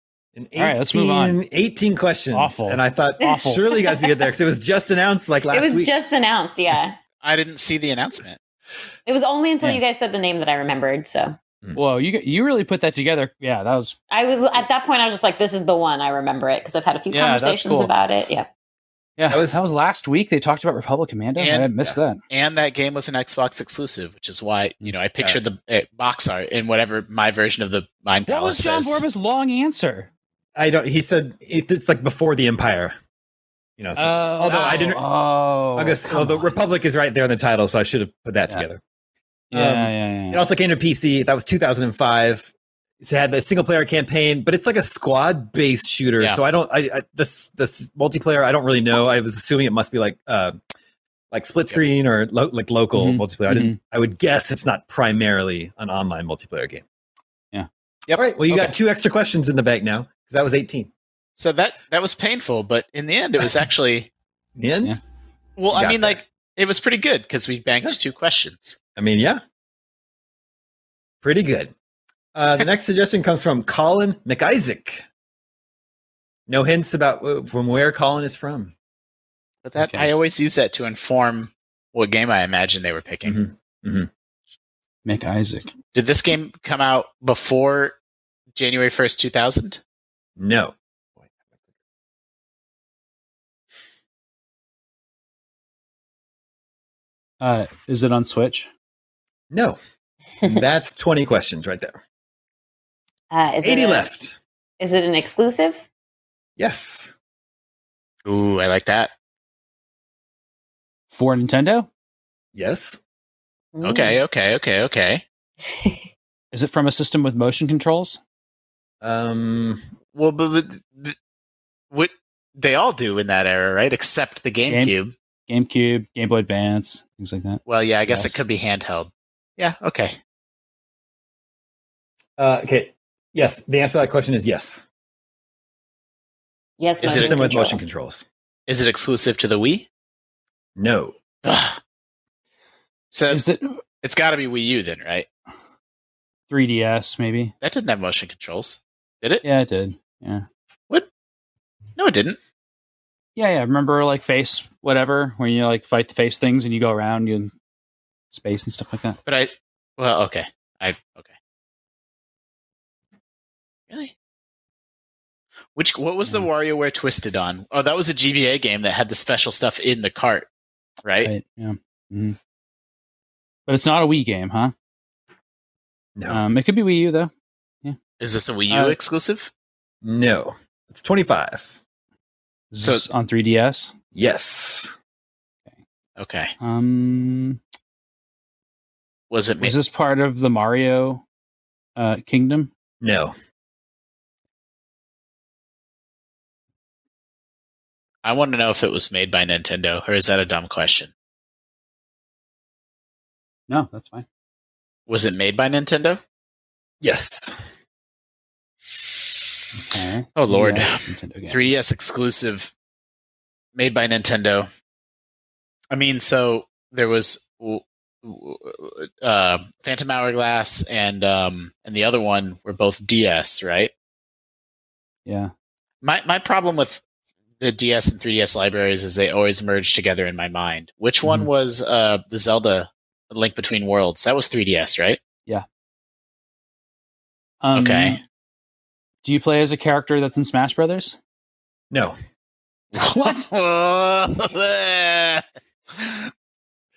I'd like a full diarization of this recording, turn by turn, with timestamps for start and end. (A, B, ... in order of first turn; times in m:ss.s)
0:00.3-0:05.9 A
0:00.6-0:01.4 B
0:02.3-0:03.6 B
0:03.3-0:04.1 C
0:05.5-0:07.0 C
0:07.2-0:08.4 D
0:09.0-0:11.4 C
0:11.8-0:14.0 B
0:14.1-0:18.5 C
0:17.1-0:17.9 B
0:19.2-0:22.2 B
0:19.3-0:19.6 A
0:21.4-0:21.7 D
0:22.3-0:29.0 D
0:28.3-0:30.1 B
0:30.5-0:33.0 A
0:33.8-0:35.0 A
0:34.0-0:36.5 B
0:35.8-0:38.8 A
0:39.5-0:40.4 B
0:39.5-0:50.6 A
0:51.3-0:56.8 A
0:52.9-0:53.8 B
0:58.1-1:00.9 A
0:58.5-0:58.7 B
1:01.4-1:04.1 D
1:04.6-1:05.0 A
1:05.6-1:08.8 D
1:05.7-1:06.2 A
1:09.0-1:09.4 A
1:11.2-1:11.7 A
1:12.3-1:15.0 A
1:16.5-1:18.7 A
1:19.6-1:23.4 D
1:19.8-1:20.1 B
1:23.2-1:24.1 A
1:25.0-1:25.7 B
1:25.9-1:28.0 D
1:28.6-1:29.8 D
1:30.4-1:30.7 A
1:37.4-1:38.7 B
1:39.5-1:39.8 A
1:40.4-1:42.0 A
1:43.3-1:44.1 C
1:43.6-1:44.4 A
1:44.8-1:45.8 C
1:46.6-1:47.1 A
1:48.2-1:49.1 D
1:51.1-1:51.9 B
1:52.5-1:53.0 A
1:53.7-1:54.2 C
1:53.8-1:55.2 D
1:56.5-1:58.2 B
1:59.0-1:59.8 A
2:00.1-2:01.1 D
2:01.9-2:05.1 D
2:04.7-2:04.9 B
2:05.5-2:08.4 B
2:07.7-2:10.2 D
2:12.4-2:14.8 A
2:16.8-2:17.8 C
2:17.0-2:17.4 D
2:17.0-2:18.2 A
2:18.7-2:19.9 D
2:20.8-2:21.2 A
2:21.4-2:21.8 D
2:23.1-2:23.4 D
2:23.3-2:23.8 B
2:24.0-2:25.3 D
2:26.5-2:27.5 B
2:27.6-2:29.4 D
2:29.4-2:30.4 B
2:32.0-2:32.4 D
2:33.4-2:37.5 B
2:38.3-2:39.2 B
2:39.2-2:41.3 D
2:45.7-2:50.5 D
2:51.0-2:51.3 D
2:51.2-2:52.4 B
2:53.7-2:54.7 B
2:56.2-2:56.4 A
2:56.3-2:57.3 B
2:58.2-2:59.5 D
2:58.7-2:59.0 B
3:00.0-3:01.8 A
3:02.7-3:03.9 B
3:04.1-3:04.9 A
3:06.2-3:06.5 D
3:06.6-3:07.6 B
3:09.3-3:09.7 D
3:09.6-3:11.2 B
3:12.0-3:12.7 B
3:13.0-3:13.3 A
3:18.2-3:21.1 D
3:23.7-3:24.2 B
3:25.1-3:26.2 D
3:27.0-3:27.5 A
3:29.7-3:31.6 B
3:30.4-3:32.7 D
3:33.7-3:34.7 D
3:35.9-3:43.9 D
3:45.2-3:45.5 B
3:46.0-3:47.0 D
3:47.6-3:55.2 D
3:57.6-3:58.2 B
3:57.7-3:58.2 D
3:59.2-4:01.2 B
4:01.9-4:02.2 A
4:02.9-4:06.3 D
4:03.0-4:03.4 B